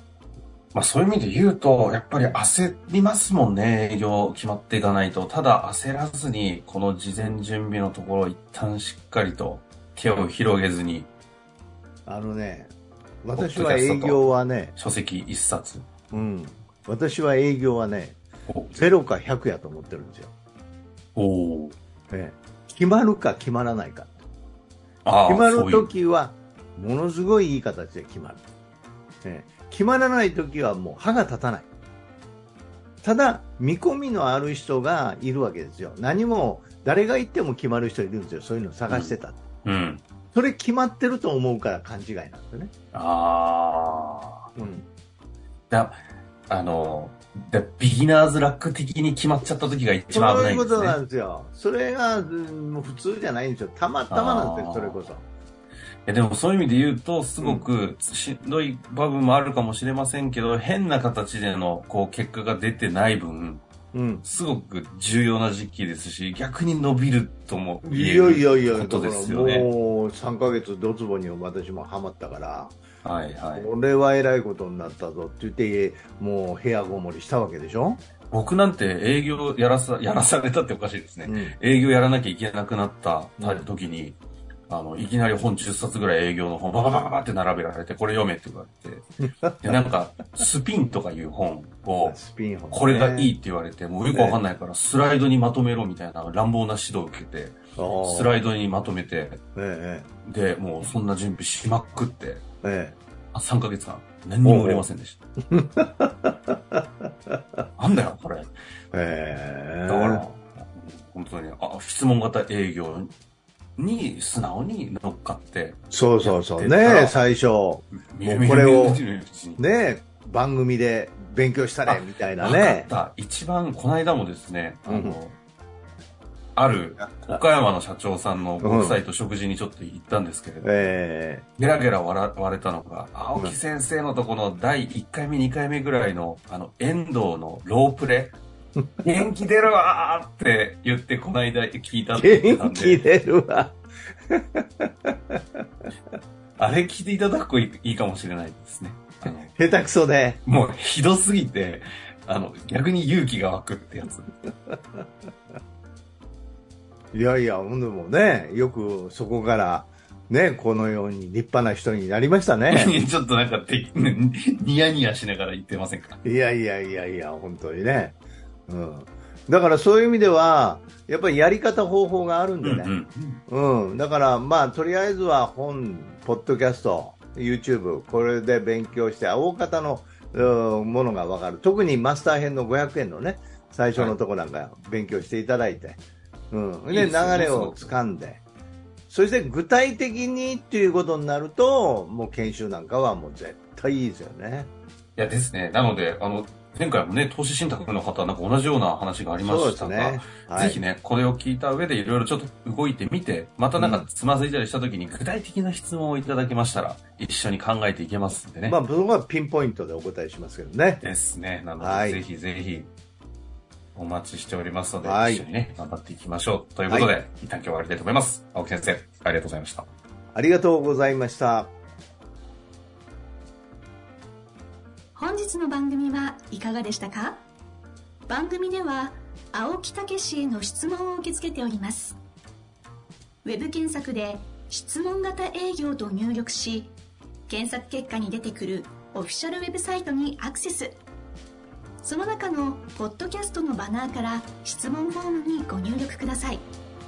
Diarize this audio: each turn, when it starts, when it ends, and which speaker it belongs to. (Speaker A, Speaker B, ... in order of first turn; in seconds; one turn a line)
Speaker A: 0.7-11.1
Speaker B: 12.1-12.7
Speaker B: 13.2-14.7
Speaker A: 13.3-14.2
Speaker A: 14.8-15.9
Speaker B: 16.1-18.2
Speaker A: 18.5-18.8
Speaker B: 18.7-20.3
Speaker A: 21.1-21.8
Speaker B: 22.1-24.2
Speaker A: 25.0-25.9
Speaker B: 25.2-28.4
Speaker B: 29.2-31.7
Speaker B: 33.0-39.4
Speaker A: 38.9-40.0
Speaker B: 40.3-42.7
Speaker A: 42.9-44.5
Speaker B: 44.5-44.9
Speaker A: 45.7-46.0
Speaker A: 46.5-51.0
Speaker B: 50.1-55.2
Speaker A: 54.1-55.1
Speaker A: 56.0-63.6
Speaker B: 57.4-57.7
Speaker B: 63.9-64.2
Speaker A: 64.2-69.7
Speaker B: 67.8-72.7
Speaker A: 73.0-73.7
Speaker B: 73.5-78.0
Speaker A: 78.3-84.2
Speaker B: 81.2-81.5
Speaker B: 83.4-83.7
Speaker A: 84.7-89.0
Speaker B: 89.2-89.8
Speaker A: 89.6-92.2
Speaker B: 92.0-93.3
Speaker A: 92.7-99.4
Speaker B: 94.1-94.4
Speaker B: 97.8-98.3
Speaker B: 99.5-100.1
Speaker A: 100.2-102.4
Speaker B: 102.6-103.0
Speaker A: 103.3-105.2
Speaker B: 104.4-104.9
Speaker B: 105.5-107.3
Speaker A: 107.8-108.5
Speaker B: 108.9-110.2
Speaker A: 109.8-113.1
Speaker A: 113.8-117.2
Speaker B: 115.9-119.0
Speaker A: 117.9-119.6
Speaker B: 119.6-122.9
Speaker A: 121.8-125.4
Speaker B: 124.8-125.2
Speaker A: 126.5-130.9
Speaker B: 127.0-127.4
Speaker B: 128.6-129.0
Speaker B: 130.6-131.4
Speaker A: 131.6-138.3
Speaker B: 138.8-139.0
Speaker A: 139.0-143.0
Speaker B: 142.1-143.8
Speaker B: 144.3-145.4
Speaker A: 146.6-149.5
Speaker B: 149.5-150.4
Speaker A: 150.4-154.3
Speaker B: 157.1-162.9
Speaker A: 162.7-166.2
Speaker B: 166.2-168.2
Speaker B: 168.7-172.9
Speaker A: 172.6-173.4
Speaker B: 173.5-188.4
Speaker A: 186.9-187.9
Speaker B: 189.1-194.7
Speaker A: 195.2-208.8
Speaker B: 199.4-200.8
Speaker B: 203.8-204.0
Speaker B: 208.7-211.0
Speaker A: 211.0-212.9
Speaker B: 211.8-212.2
Speaker A: 213.9-219.9
Speaker B: 215.0-215.4
Speaker B: 220.3-221.7
Speaker C: 225.1-227.5
Speaker C: 228.3-232.2
Speaker C: 233.4-236.9
Speaker C: 237.5-241.0
Speaker C: 242.0-246.7